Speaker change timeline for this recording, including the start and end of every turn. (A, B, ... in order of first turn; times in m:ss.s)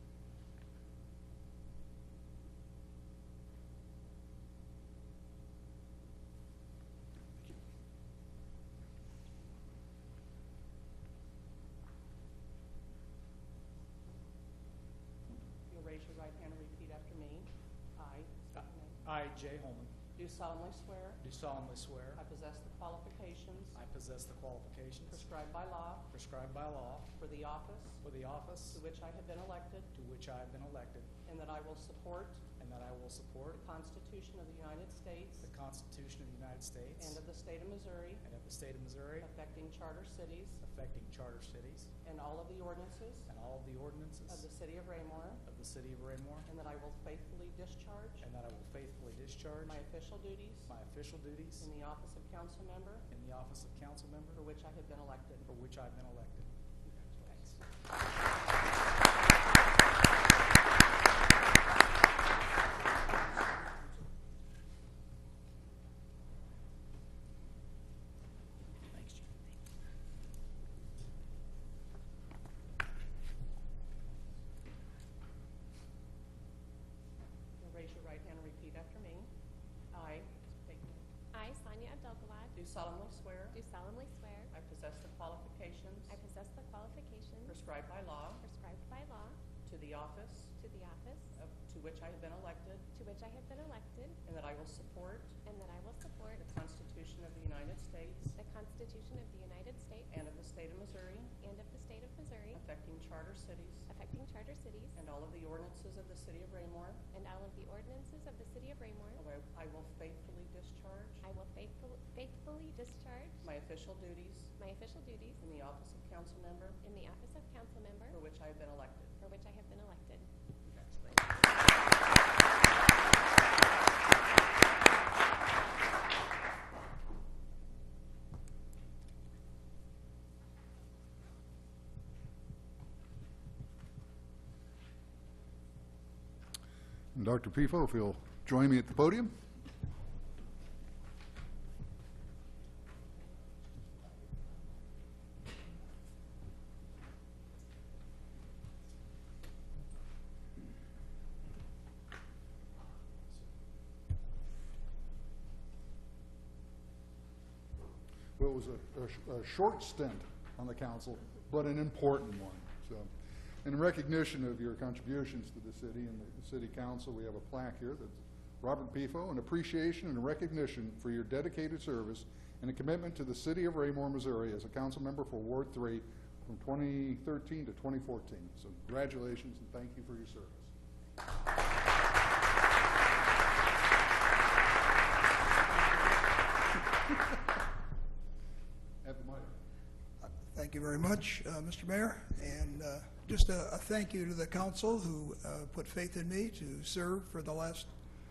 0:15.7-0:19.0 A
0:18.6-0:19.9 B
0:20.2-0:21.2 A
0:21.2-0:22.2 B
0:22.2-0:23.8 A
0:23.7-0:25.3 B
0:25.1-0:26.1 A
0:26.1-0:27.2 B
0:27.2-0:28.0 A
0:28.0-0:28.8 B
0:28.7-0:29.9 A
0:29.9-0:31.1 B
0:31.2-0:32.5 A
0:32.5-0:33.6 B
0:33.5-0:35.5 A
0:35.4-0:37.2 B
0:37.0-0:38.2 A
0:38.2-0:39.3 B
0:39.2-0:40.6 A
0:40.6-0:41.9 B
0:42.0-0:43.3 A
0:43.3-0:44.4 B
0:44.3-0:45.4 A
0:45.4-0:46.5 B
0:46.4-0:48.3 A
0:48.2-0:49.8 B
0:49.6-0:50.7 A
0:50.7-0:51.7 B
0:51.6-0:53.1 A
0:53.1-0:54.4 B
0:54.3-0:55.5 A
0:55.4-0:57.6 B
1:17.6-1:19.3 A
1:19.9-1:21.1 A
1:21.3-1:22.6 C
1:22.6-1:23.6 A
1:23.5-1:24.5 C
1:24.5-1:26.2 A
1:26.1-1:27.6 C
1:27.4-1:28.4 A
1:28.4-1:29.4 C
1:29.6-1:30.6 A
1:30.6-1:31.3 C
1:31.3-1:32.9 A
1:32.9-1:34.2 C
1:34.2-1:35.4 A
1:35.4-1:36.4 C
1:36.4-1:38.4 A
1:38.4-1:40.1 C
1:40.1-1:41.3 A
1:41.4-1:42.6 C
1:42.5-1:43.9 A
1:43.9-1:45.0 C
1:45.0-1:47.0 A
1:47.1-1:49.2 C
1:49.2-1:51.2 A
1:51.2-1:53.4 C
1:53.4-1:54.5 A
1:54.6-1:55.4 C
1:55.4-1:56.8 A
1:56.8-1:58.2 C
1:58.1-1:59.2 A
1:59.2-2:00.3 C
2:17.1-2:19.3 D
2:38.4-2:43.1 D
2:43.6-3:00.7 D
3:09.0-3:09.5 D
3:10.2-3:17.9 E